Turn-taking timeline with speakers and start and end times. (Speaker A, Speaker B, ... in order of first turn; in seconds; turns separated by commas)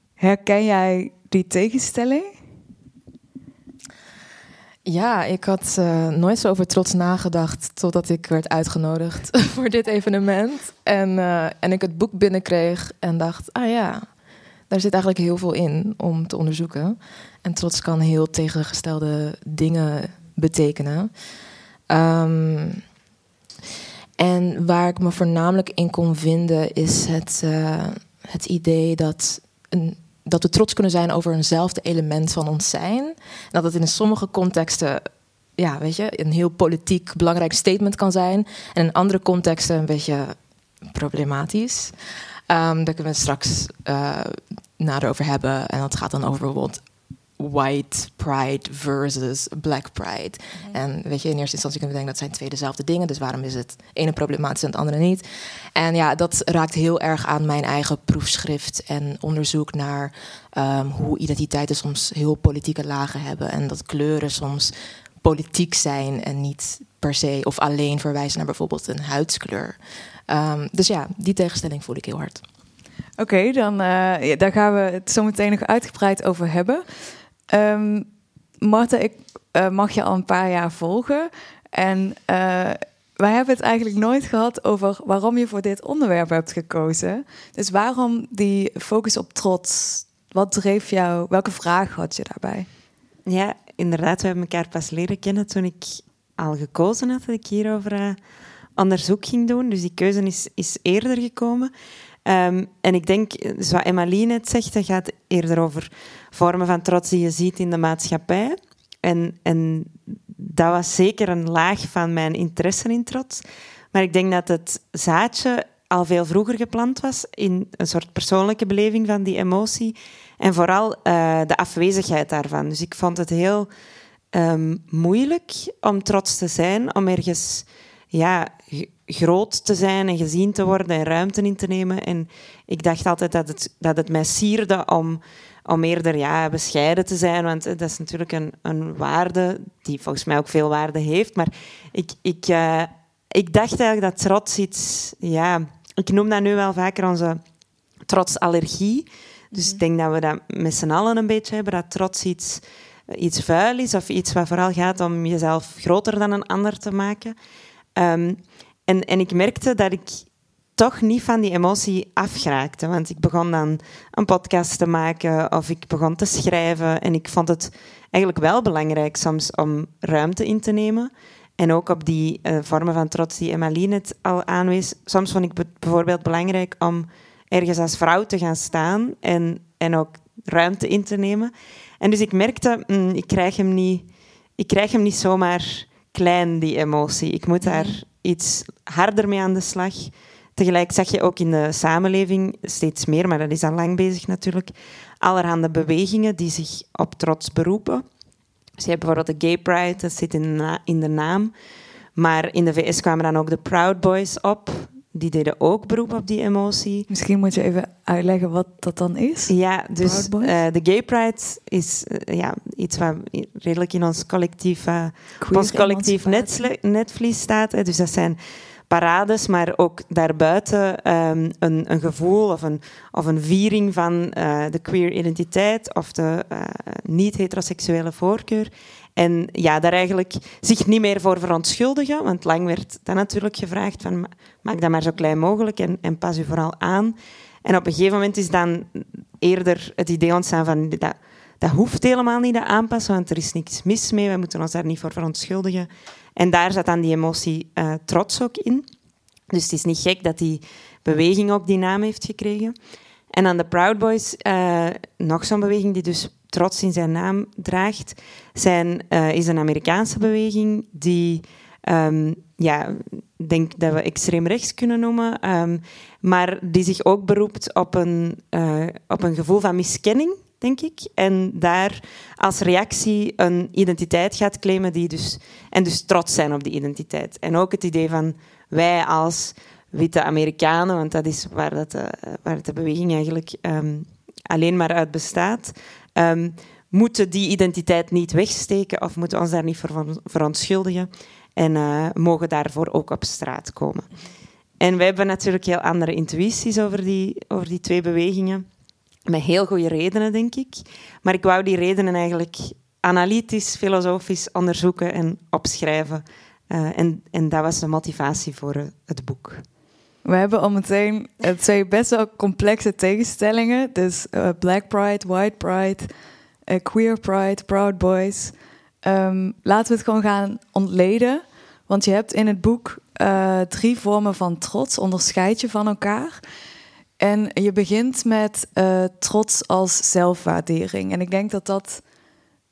Speaker A: 0.2-2.3, Speaker B: 4.8-14.1, Speaker B: 14.7-21.1, Speaker B: 21.9-22.8, Speaker B: 24.2-41.9, Speaker B: 42.5-46.8, Speaker B: 47.4-55.2, Speaker B: 55.7-69.8, Speaker B: 70.3-72.4, Speaker A: 73.2-76.8, Speaker A: 77.5-78.1, Speaker A: 78.6-92.7, Speaker C: 93.2-98.2, Speaker C: 98.8-101.7, Speaker C: 102.2-123.7, Speaker C: 124.3-147.4, Speaker C: 148.1-157.3, Speaker A: 149.5-149.8, Speaker C: 157.9-198.0, Speaker A: 187.6-187.9, Speaker C: 198.8-201.5, Speaker C: 202.2-207.1, Speaker A: 207.1-210.5, Speaker C: 209.5-218.4, Speaker A: 215.4-216.7, Speaker C: 218.9-248.8, Speaker C: 249.5-252.7, Speaker C: 253.3-294.1, Speaker C: 294.8-298.6, Speaker C: 299.3-309.6, Speaker A: 310.2-316.1, Speaker A: 316.7-326.4, Speaker A: 327.2-332.0